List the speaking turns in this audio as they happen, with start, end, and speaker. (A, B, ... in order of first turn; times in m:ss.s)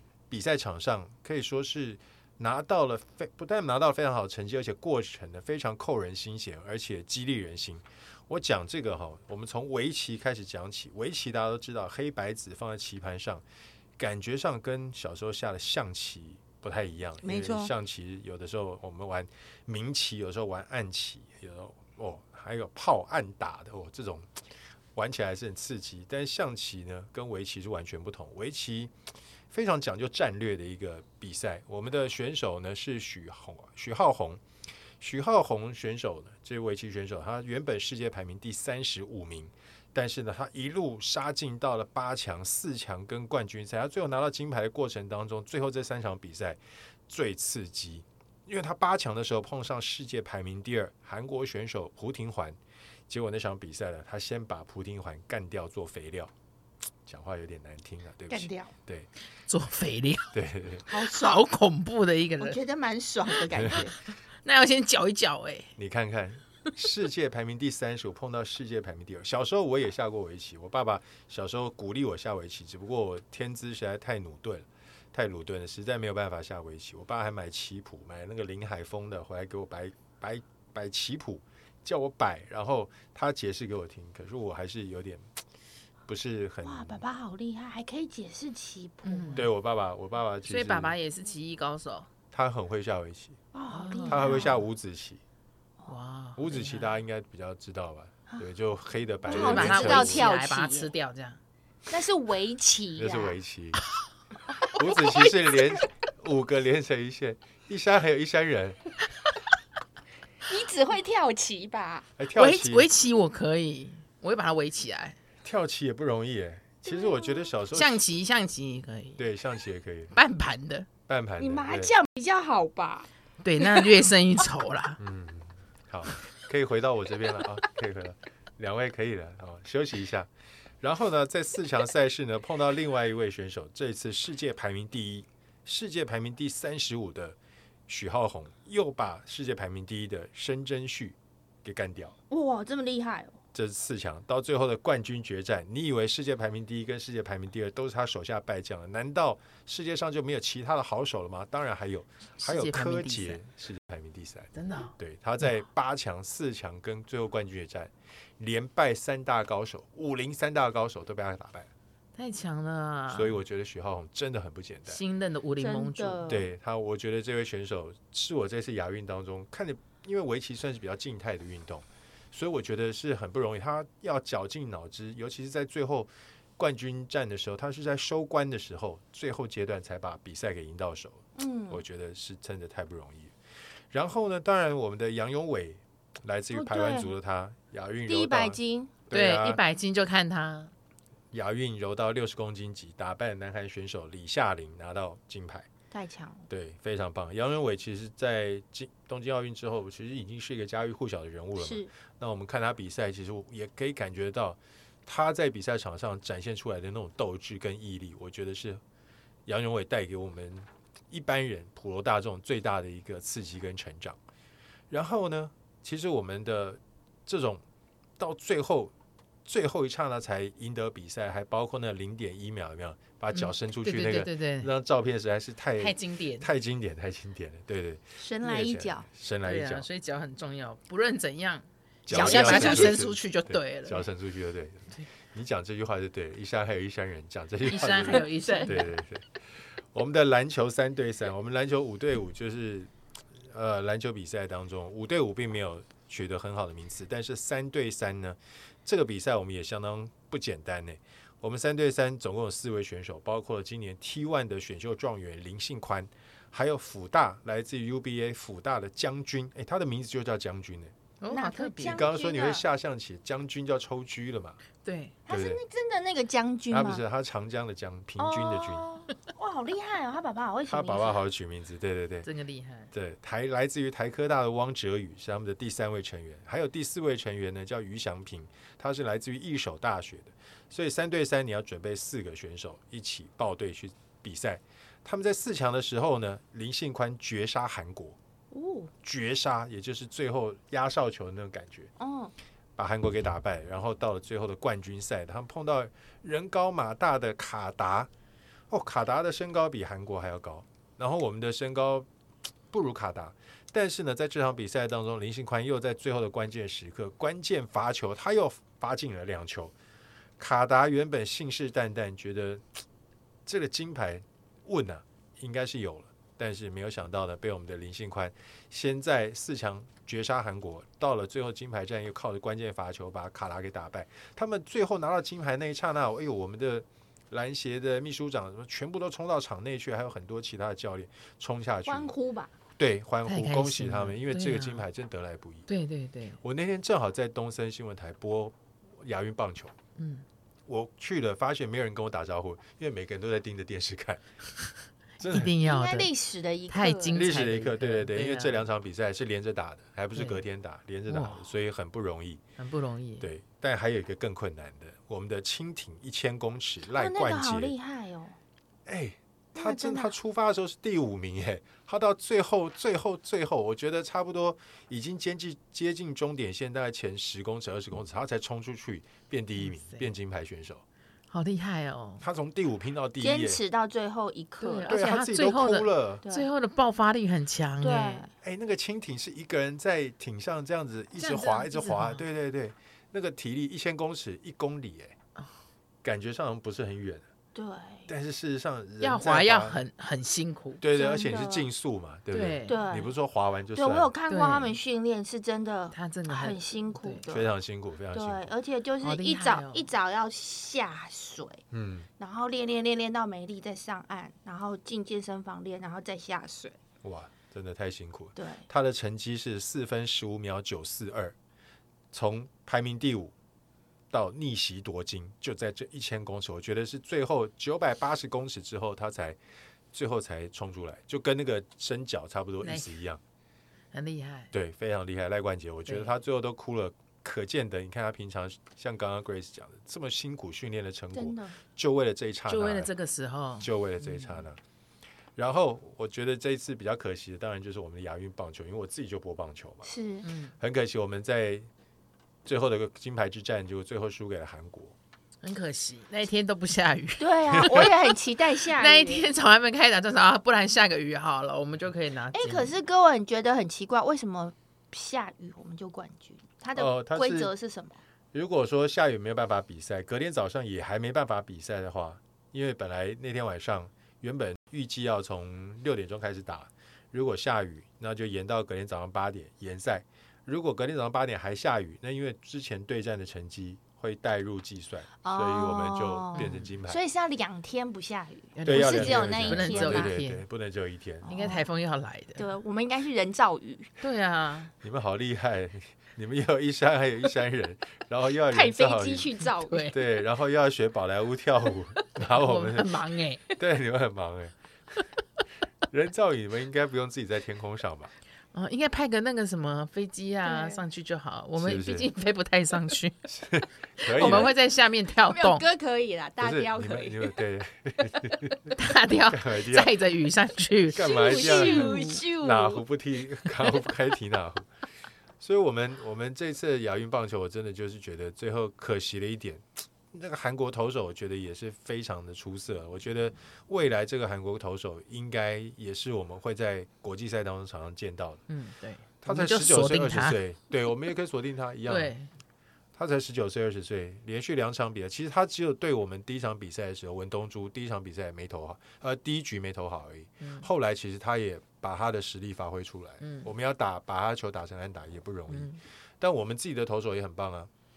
0:00.3-0:13.4 A
0:14.0-0:24.3 A
0:17.2-0:17.7 B
0:24.9-0:28.9 A
0:29.5-0:34.4 A
0:35.0-0:56.3 A
0:57.0-0:59.1 A
0:58.3-0:58.7 B
0:59.5-1:00.4 C
1:00.3-1:00.8 A
1:00.9-1:01.4 B
1:00.9-1:02.6 C
1:02.4-1:04.0 B
1:03.3-1:03.9 C
1:03.5-1:03.9 A
1:04.4-1:05.7 C
1:05.8-1:25.3 A
1:26.1-1:27.0 A
1:26.6-1:29.4 B
1:29.0-1:29.5 C
1:29.3-1:30.9 A
1:30.5-1:32.1 C
1:32.3-1:33.4 A
1:33.5-1:34.6 B
1:33.7-1:34.6 C
1:34.0-1:35.2 A
1:35.9-1:37.0 C
1:36.4-1:40.3 A
1:39.2-1:40.9 B
1:39.3-1:41.4 C
1:41.9-1:43.4 B
1:43.0-1:43.8 A
1:44.6-1:45.8 B
1:44.7-1:48.8 A
1:50.5-1:52.1 B
1:52.2-1:52.9 A
1:52.3-1:55.2 C
1:55.4-1:58.0 A
1:56.8-1:57.5 B
1:57.7-1:59.2 C
1:59.2-2:00.1 A
2:00.1-2:00.9 C
2:01.1-2:01.9 A
2:01.4-2:03.1 B
2:03.4-2:05.0 C
2:03.6-2:03.9 B
2:05.0-2:17.4 A
2:17.9-2:22.1 A
2:22.3-2:23.4 B
2:23.5-2:41.7 A
2:32.4-2:33.4 C
2:34.5-2:35.5 C
2:42.2-2:43.4 C
2:43.1-2:45.0 A
2:44.9-2:46.3 C
2:45.6-2:46.4 B
2:46.3-3:03.3 A
3:01.4-3:01.8 B
3:03.9-3:09.6 A
3:06.5-3:07.1 B
3:08.1-3:08.9 B
3:09.1-3:10.7 C
3:11.3-3:15.7 A
3:15.9-3:16.4 B
3:16.5-3:28.8 A
3:21.6-3:21.9 B
3:29.4-3:34.2 A
3:34.9-3:37.6 A
3:38.2-3:38.9 A
3:39.4-3:49.9 A
3:43.3-3:44.7 C
3:45.8-3:46.5 C
3:48.2-3:49.0 B
3:49.4-3:54.0 C
3:52.0-4:20.9 A
3:52.1-3:53.1 B
3:57.6-3:58.9 C
3:58.0-3:58.8 B
4:21.2-4:22.0 C
4:21.3-4:22.6 B
4:21.8-4:24.6 A
4:24.8-4:25.2 C
4:25.3-4:27.0 B
4:25.3-4:25.6 A
4:26.7-4:28.8 A
4:28.2-4:31.2 B
4:30.7-4:32.3 A
4:32.2-4:32.9 C
4:32.9-4:48.2 A
4:48.5-4:48.9 B
4:49.0-4:51.9 A
4:52.0-4:52.3 B
4:52.8-4:58.1 A
4:58.7-5:02.1 A
5:02.7-5:09.7 A
5:10.4-5:12.8 A
5:13.4-5:32.1 A
5:31.8-5:32.5 B
5:32.8-5:35.7 A
5:33.2-5:34.9 C
5:35.7-5:36.4 C
5:36.4-5:39.7 A
5:40.0-5:40.2 C
5:40.7-5:44.2 A
5:45.2-5:45.6 A
5:45.2-5:46.1 C
5:45.6-5:47.5 B
5:46.7-5:48.6 C
5:47.1-5:52.4 A
5:50.1-5:50.4 C
5:51.1-5:51.5 C
5:52.6-5:53.3 C
5:53.2-5:57.7 A
5:56.9-5:58.4 B
5:58.8-6:10.8 A
5:59.6-6:00.1 B
6:09.6-6:10.1 C
6:11.3-6:12.2 C
6:12.2-6:13.6 A
6:13.2-6:14.9 B
6:14.6-6:18.3 C
6:14.9-6:16.2 A
6:16.2-6:16.5 B
6:17.8-6:18.3 B
6:18.4-6:25.2 A
6:21.2-6:22.2 C
6:26.0-6:27.3 A
6:27.5-6:28.1 B
6:28.1-6:29.8 A
6:29.0-6:30.8 C
6:30.8-6:34.1 A
6:30.9-6:31.7 B
6:32.3-6:32.8 C
6:32.7-6:33.1 B
6:33.7-6:37.5 B
6:34.3-6:34.8 C
6:35.9-6:37.2 C
6:37.3-6:38.5 A
6:38.1-6:41.6 B
6:39.0-6:39.9 C
6:41.7-6:42.1 A
6:42.2-6:46.8 B
6:47.0-6:51.4 A
6:48.4-6:48.7 B
6:52.1-6:53.3 A
6:54.1-6:59.4 A
6:59.9-7:03.2 A
7:02.6-7:02.9 C
7:03.9-7:04.5 C
7:04.5-7:12.9 A
7:05.8-7:06.1 C
7:11.1-7:11.6 B
7:12.5-7:14.4 C
7:13.6-7:14.6 A
7:15.4-7:19.9 A
7:19.8-7:20.2 B
7:20.2-7:20.5 C
7:20.6-7:21.7 A
7:22.4-7:25.0 A
7:25.4-7:28.1 C
7:27.2-7:29.3 B
7:27.6-7:27.9 A
7:28.7-7:32.7 C
7:32.3-7:38.0 B
7:36.8-7:37.5 A
7:38.3-7:57.0 A
7:55.2-8:00.2 B
7:56.3-7:56.7 C
7:58.5-8:00.4 C
7:58.6-8:01.2 A
8:01.2-8:01.6 B
8:01.3-8:02.5 C
8:02.4-8:03.9 B
8:04.0-8:04.7 C
8:04.8-8:09.3 A
8:08.5-8:09.9 B
8:09.6-8:10.0 C
8:09.9-8:13.0 A
8:12.2-8:13.4 C
8:13.5-8:14.6 A
8:15.9-8:18.1 A
8:18.5-8:23.2 C
8:20.4-8:20.8 B
8:21.6-8:22.1 A
8:23.3-8:24.5 A
8:24.0-8:25.6 C
8:24.2-8:24.5 B
8:25.2-8:27.4 B
8:26.4-8:28.7 A
8:28.7-8:32.2 C
8:29.3-8:29.9 A
8:30.9-8:34.7 A
8:30.9-8:32.8 B
8:35.4-8:48.4 A
8:48.5-8:50.4 C
8:49.2-8:52.1 A
8:51.9-8:52.3 C
8:52.9-9:07.7 A
9:00.4-9:00.7 C
9:03.2-9:03.5 C
9:05.5-9:05.8 C